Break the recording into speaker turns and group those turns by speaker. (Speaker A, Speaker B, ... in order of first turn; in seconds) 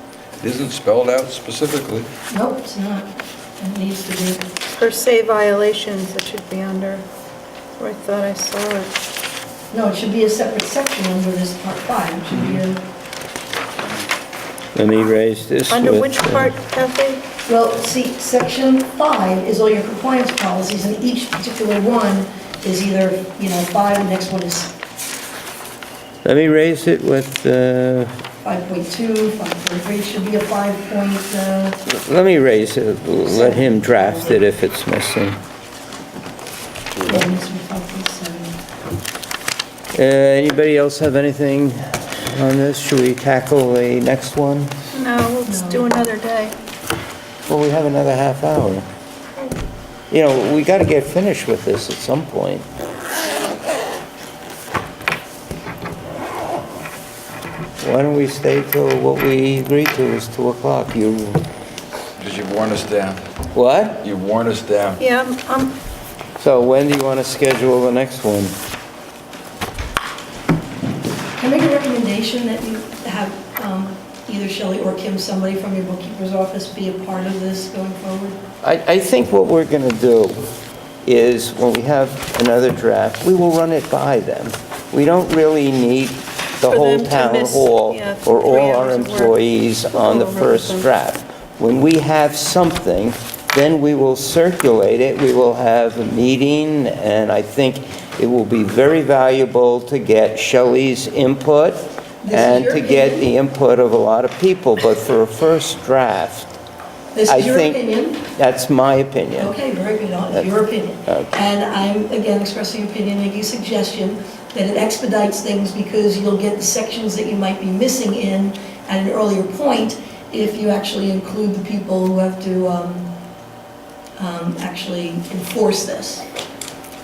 Speaker A: 0.4-2.1, 62.2-63.2, 64.0-65.0
Speaker B: 2.3-4.4, 9.7-12.8, 17.4-24.7, 28.4-31.8, 33.2-34.4, 37.0-38.6, 45.5-46.0, 71.4-78.4, 102.2-103.3, 107.1-108.2, 109.4-123.1, 124.2-126.2
Speaker C: 4.7-7.0, 7.8-8.9, 15.7-17.2, 44.9-46.5, 65.0-65.8, 86.6-89.3, 89.9-90.8
Speaker D: 14.7-16.5, 26.2-28.1, 31.9-35.4, 39.9-44.7, 47.5-48.9, 50.1-52.6, 57.8-61.4, 63.5-64.0, 66.4-68.5, 78.6-80.5, 81.0-106.5, 107.3-109.5, 111.1-111.3